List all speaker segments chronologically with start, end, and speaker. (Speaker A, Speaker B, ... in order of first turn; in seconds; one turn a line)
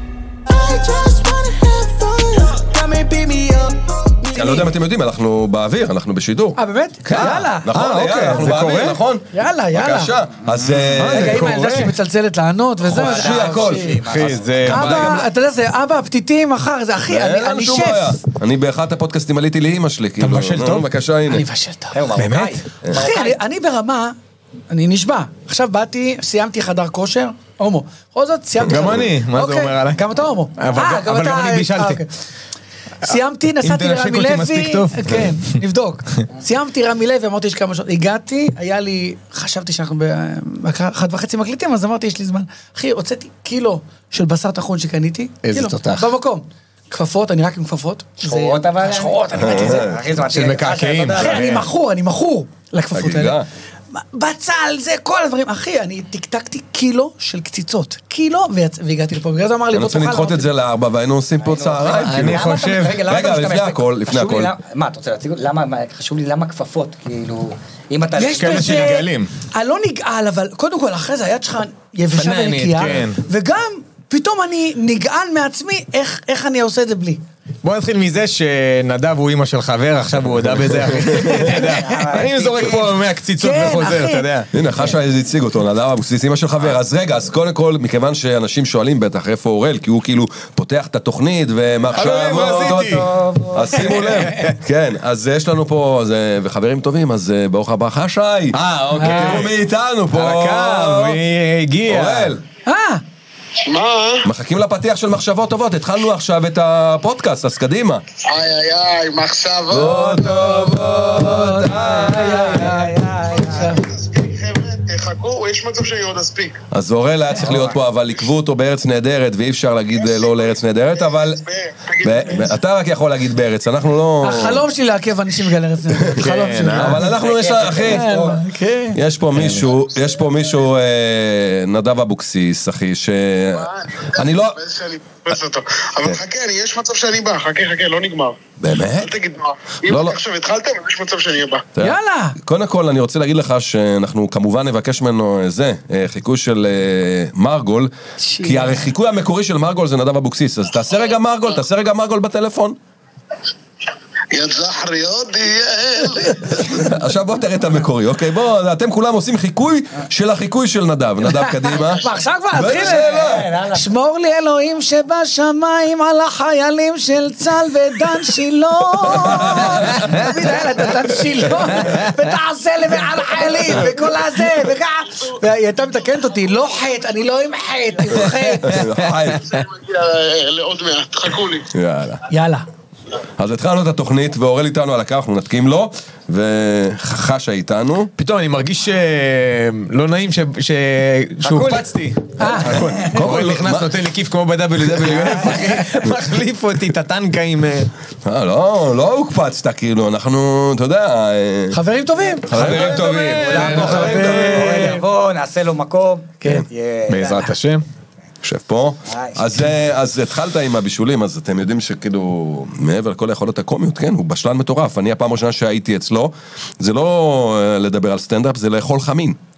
Speaker A: 0.5-4.7
Speaker B: 4.3-11.5
Speaker A: 6.6-7.9
Speaker C: 7.1-9.0
Speaker A: 9.3-10.1
Speaker C: 10.8-11.9
Speaker A: 11.0-14.0
Speaker B: 12.8-13.9
Speaker D: 12.9-15.1
Speaker C: 14.0-15.2
Speaker B: 14.7-15.2
Speaker A: 14.7-18.2
Speaker B: 17.1-21.4
Speaker C: 20.2-20.9
Speaker A: 21.3-22.0
Speaker D: 21.9-23.4
Speaker C: 22.1-22.6
Speaker A: 22.9-24.1
Speaker A: 24.7-32.1
Speaker C: 28.6-32.0
Speaker B: 28.6-29.0
Speaker A: 33.0-49.9
Speaker C: 33.6-35.6
Speaker C: 45.4-46.1
Speaker D: 48.2-51.6
Speaker B: 49.4-50.0
Speaker C: 50.1-51.6
Speaker A: 51.1-60.5
Speaker B: 52.9-53.5
Speaker B: 59.7-62.4
Speaker D: 61.4-69.0
Speaker C: 62.0-63.1
Speaker B: 63.0-64.5
Speaker A: 68.2-77.2
Speaker C: 68.3-69.3
Speaker C: 72.1-73.2
Speaker C: 77.6-84.5
Speaker D: 81.2-82.9
Speaker A: 81.3-82.2
Speaker A: 83.3-84.3
Speaker B: 84.5-101.2
Speaker C: 91.9-93.1
Speaker D: 92.8-94.0
Speaker C: 94.3-94.5
Speaker C: 98.5-99.5
Speaker A: 99.0-99.5
Speaker C: 100.1-102.3
Speaker B: 101.8-102.4
Speaker A: 102.7-103.0
Speaker E: 103.7-104.3
Speaker B: 104.2-108.0
Speaker E: 108.2-110.1
Speaker B: 109.7-112.8
Speaker A: 109.8-113.8
Speaker D: 112.2-113.7
Speaker E: 113.2-116.6
Speaker B: 116.7-121.4
Speaker E: 120.0-120.5
Speaker E: 121.4-122.5
Speaker B: 122.0-124.6
Speaker A: 124.2-127.0
Speaker C: 126.2-127.0
Speaker B: 126.8-128.1
Speaker D: 127.0-128.4
Speaker A: 127.8-129.0
Speaker B: 128.9-134.6
Speaker C: 129.3-129.7
Speaker E: 133.6-138.4
Speaker B: 138.6-139.1
Speaker E: 138.9-141.6
Speaker B: 139.9-140.2
Speaker B: 141.8-152.8
Speaker A: 141.8-142.3
Speaker A: 148.2-148.8
Speaker E: 154.3-156.8
Speaker B: 156.7-163.5
Speaker A: 161.3-163.2
Speaker D: 162.7-163.9
Speaker A: 163.7-178.8
Speaker B: 169.1-170.3
Speaker C: 169.9-170.3
Speaker C: 171.8-172.1
Speaker B: 178.6-179.5
Speaker C: 178.9-179.6
Speaker E: 179.4-181.7
Speaker B: 181.7-182.2
Speaker A: 182.3-182.7
Speaker B: 183.4-188.1
Speaker C: 188.2-197.9
Speaker D: 191.4-191.9
Speaker A: 192.4-193.1
Speaker B: 193.0-193.9
Speaker B: 194.8-196.2
Speaker B: 198.2-201.8
Speaker A: 201.7-202.6
Speaker B: 202.4-204.8
Speaker C: 202.5-205.0
Speaker D: 202.6-207.5
Speaker A: 203.7-205.0
Speaker C: 207.1-207.8
Speaker B: 208.4-219.4
Speaker D: 209.1-209.7